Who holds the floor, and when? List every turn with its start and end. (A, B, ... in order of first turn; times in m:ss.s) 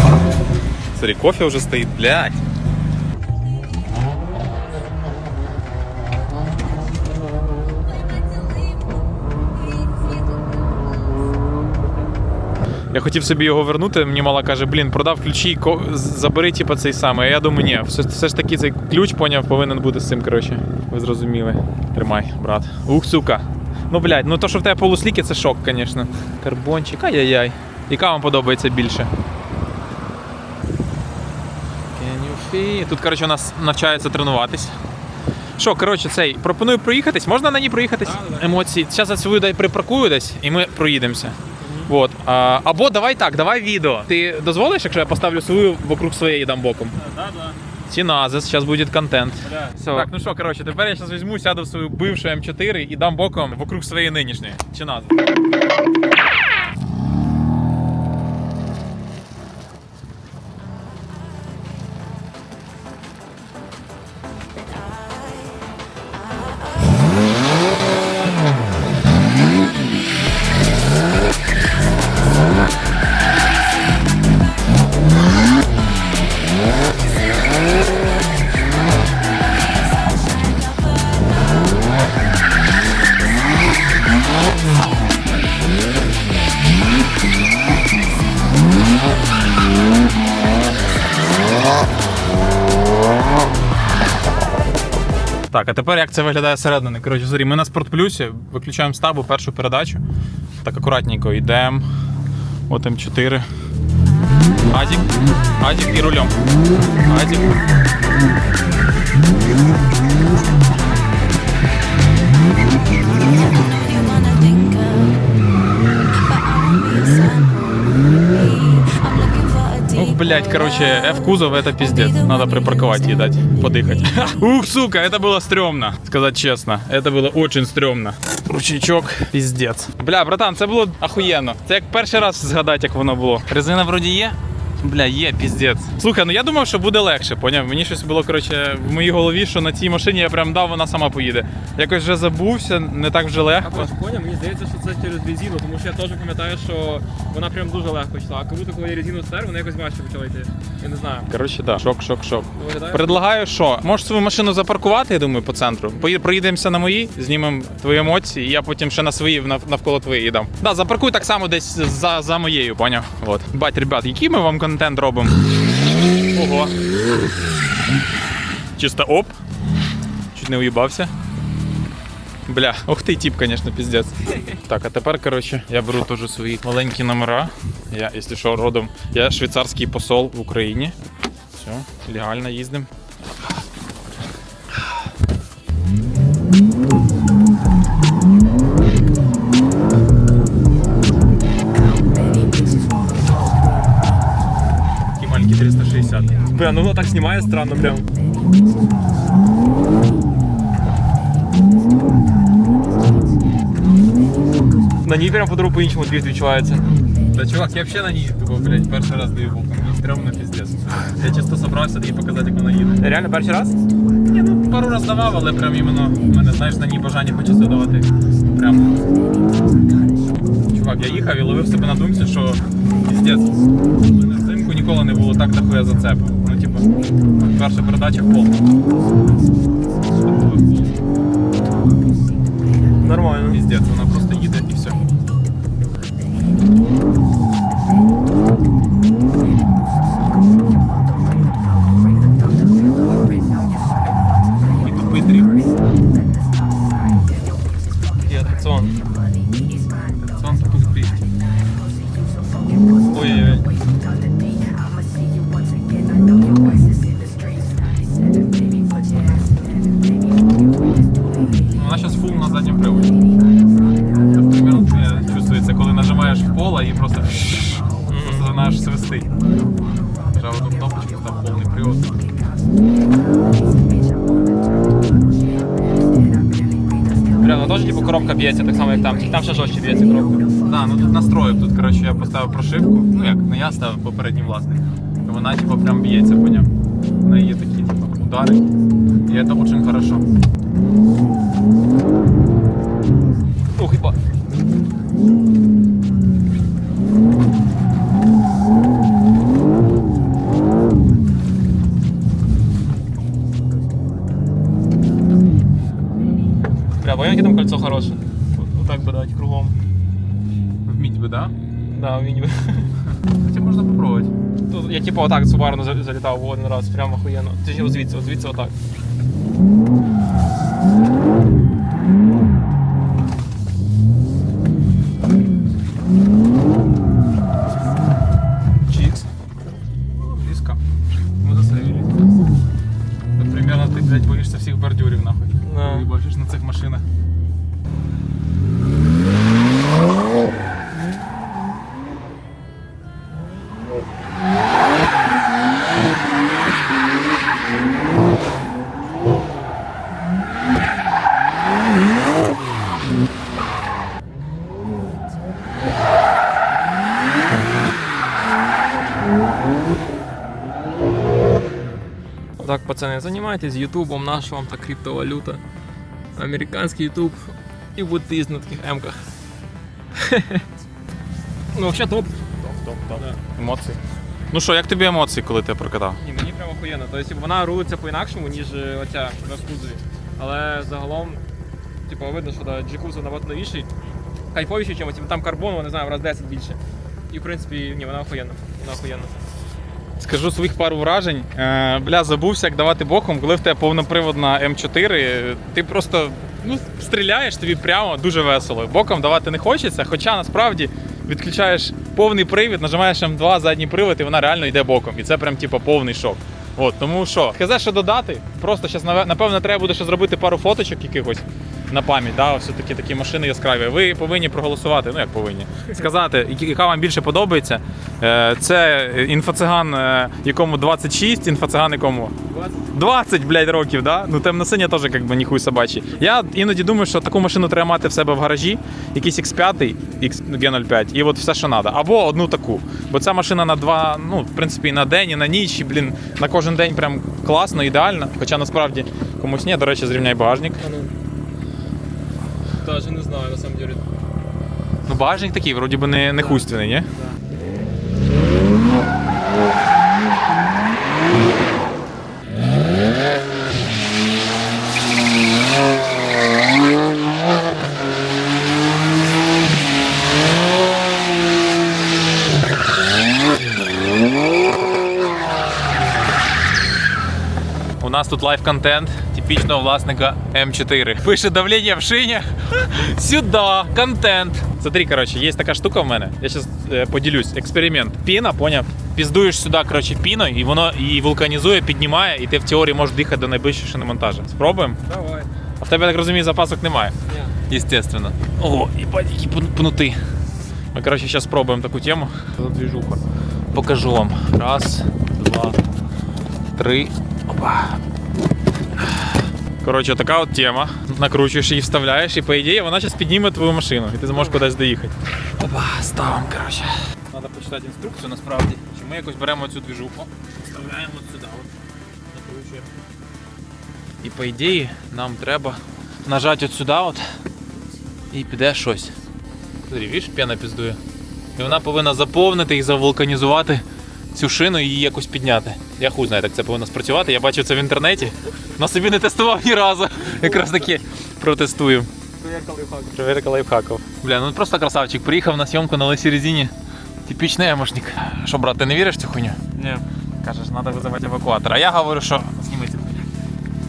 0:00.9-0:02.4 A
0:12.9-0:29.1 A
0:31.9-0:34.7 A
0:35.6-0:41.4 A
0:38.0-0:38.6 B
0:41.6-0:41.9 B
0:41.9-0:46.9 A
0:46.9-0:47.6 B
0:47.9-0:55.2 A
0:49.4-0:50.1 B
1:35.5-1:40.0 A
1:40.6-1:41.8 A
1:42.7-1:43.4 A
1:44.7-1:45.1 A
1:45.6-1:46.3 A
1:47.0-1:47.6 A
1:59.9-2:23.9 A
2:23.6-2:31.3 B
2:31.3-2:45.4 A
2:32.5-2:33.2 B
2:46.3-2:46.7 A
2:48.8-2:49.3 A
2:50.3-2:51.1 A
2:52.5-3:00.9 A
3:01.5-3:02.9 A
3:15.2-3:16.3 A
3:16.5-3:18.0 B
3:25.0-3:27.0 B
3:27.3-3:33.0 A
3:33.0-3:33.8 B
3:34.3-3:39.0 A
3:40.7-3:48.6 A
3:50.2-3:50.9 A
3:53.0-3:53.6 B
3:53.5-3:55.0 A
4:04.8-4:05.6 A
4:08.2-4:08.9 B
4:10.1-4:11.2 A
4:13.1-4:13.6 B
4:21.7-4:23.1 A
4:24.3-4:29.3 A
4:28.1-4:28.5 B
4:30.3-4:32.2 A
4:37.4-4:40.5 B
4:40.6-4:46.7 A
4:47.2-4:48.6 A
4:49.3-4:50.2 A
4:53.8-4:54.2 B
5:07.0-5:09.8 B
5:10.8-5:11.5 A
5:11.7-5:12.9 B
5:13.4-5:14.3 A
5:14.7-5:18.7 B
5:28.9-5:29.2 B
5:30.3-5:30.8 A
5:31.4-5:32.1 B
5:33.4-5:37.0 A
5:35.6-5:36.1 B
6:02.6-6:05.6 B
6:06.4-6:09.2 B
6:10.1-6:10.6 B
6:11.7-6:12.3 B
6:12.6-6:14.0 A
6:13.1-6:13.4 B
6:14.5-6:16.2 A
6:16.2-6:21.4 B
6:22.1-6:23.9 B
6:24.5-6:26.8 B
6:27.3-6:29.3 B
6:30.2-7:02.3 A
7:02.5-7:02.9 B
7:02.9-7:20.8 A
7:20.8-7:21.1 B
7:22.8-7:24.0 B
7:25.1-7:27.1 A
7:26.4-7:27.4 B
7:48.0-8:05.0 A
8:05.0-8:05.5 B
8:05.8-8:07.1 A
8:07.3-8:07.6 B
8:07.7-8:10.2 A
8:10.9-8:13.2 A
8:13.7-8:15.8 A
8:16.8-8:18.0 A
8:19.0-8:31.7 A
8:32.3-8:32.9 A
8:34.2-8:37.2 A
8:38.3-8:39.1 A
8:39.8-8:41.0 A
8:41.6-8:52.1 A
8:52.4-8:53.2 B
8:53.2-8:56.7 A
8:57.2-8:59.6 A
8:59.7-9:00.0 B
9:00.4-9:03.3 A